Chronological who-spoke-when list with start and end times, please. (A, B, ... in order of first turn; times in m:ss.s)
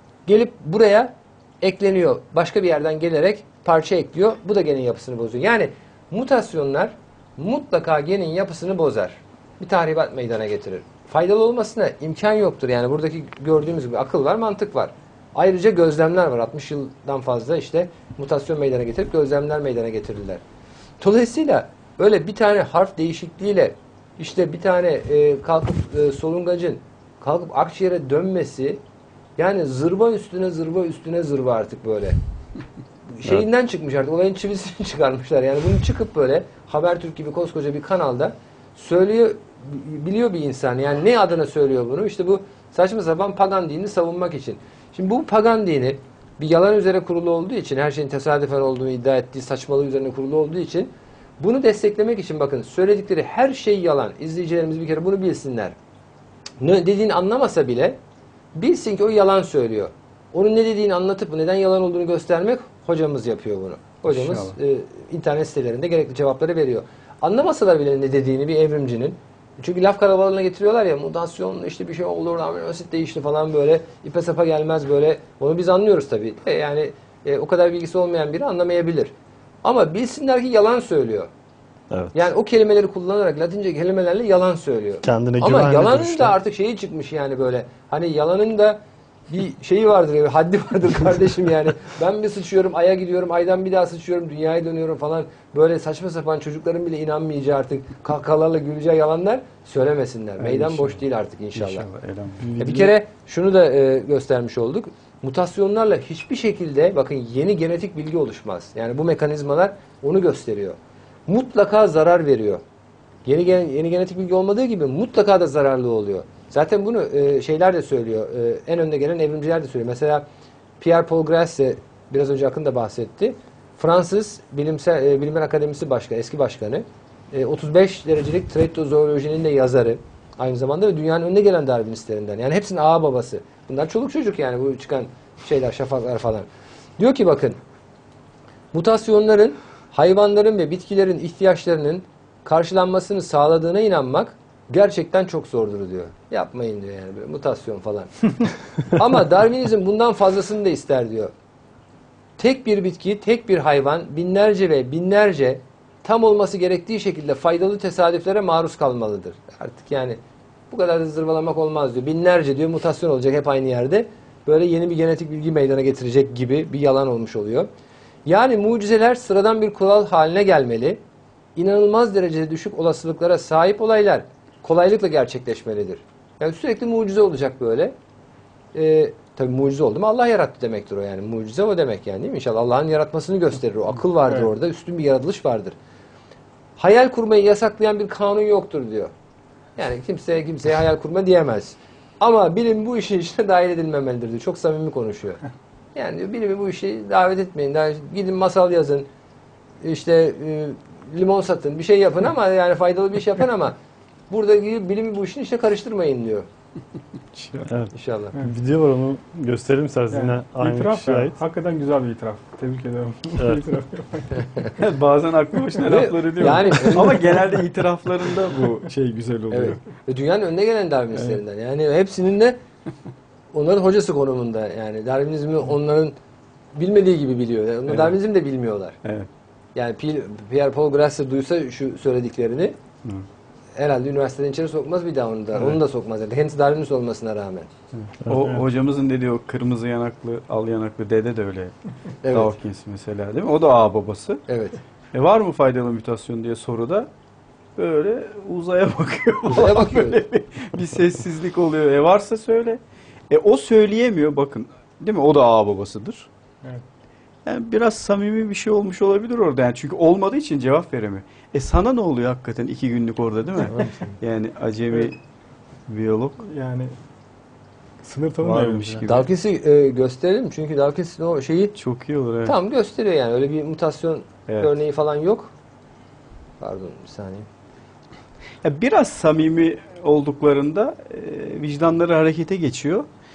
0:00.2-0:20.4 A
0:21.0-0:28.8 A
0:29.4-0:32.2 A
0:33.1-0:55.8 A
0:56.6-0:58.0 A
0:58.6-1:19.1 A
1:04.1-1:04.6 B
1:19.6-1:21.3 A
1:21.9-1:22.2 C
1:22.1-1:41.9 A
1:25.0-1:26.4 C
1:40.4-1:41.0 B
1:41.6-1:42.9 B
1:42.6-1:50.8 A
1:51.3-1:52.6 A
1:53.2-2:00.2 A
2:00.8-2:16.5 A
2:17.0-2:17.6 A
2:18.7-2:31.3 A
2:32.4-2:40.2 A
2:40.7-2:47.7 A
2:48.2-2:51.0 A
2:51.6-2:57.9 A
2:58.7-3:05.8 A
3:06.8-3:09.1 A
3:09.8-3:15.4 A
3:16.0-3:19.1 A
3:19.8-3:23.8 A
3:24.3-3:26.5 A
3:27.4-3:27.6 B
3:27.7-3:31.4 C
3:27.9-3:28.4 A
3:30.1-3:34.5 D
3:34.7-3:39.8 B
3:35.8-3:37.3 A
3:39.5-3:42.6 A
3:43.5-3:46.1 A
3:46.8-3:49.0 A
3:47.9-3:48.2 B
3:49.0-3:49.3 B
3:49.8-3:52.7 A
3:53.8-3:57.7 A
3:58.0-4:01.7 B
4:02.2-4:02.6 A
4:02.3-4:04.4 B
4:04.5-4:04.8 A
4:05.1-4:07.1 B
4:07.8-4:16.3 B
4:09.5-4:10.2 A
4:17.5-4:25.2 B
4:25.9-4:26.4 B
4:26.4-4:27.0 D
4:28.0-4:29.0 D
4:28.4-4:29.3 B
4:29.0-4:31.7 A
4:31.8-4:32.6 B
4:32.4-4:35.5 A
4:36.6-4:37.5 A
4:38.6-4:43.1 B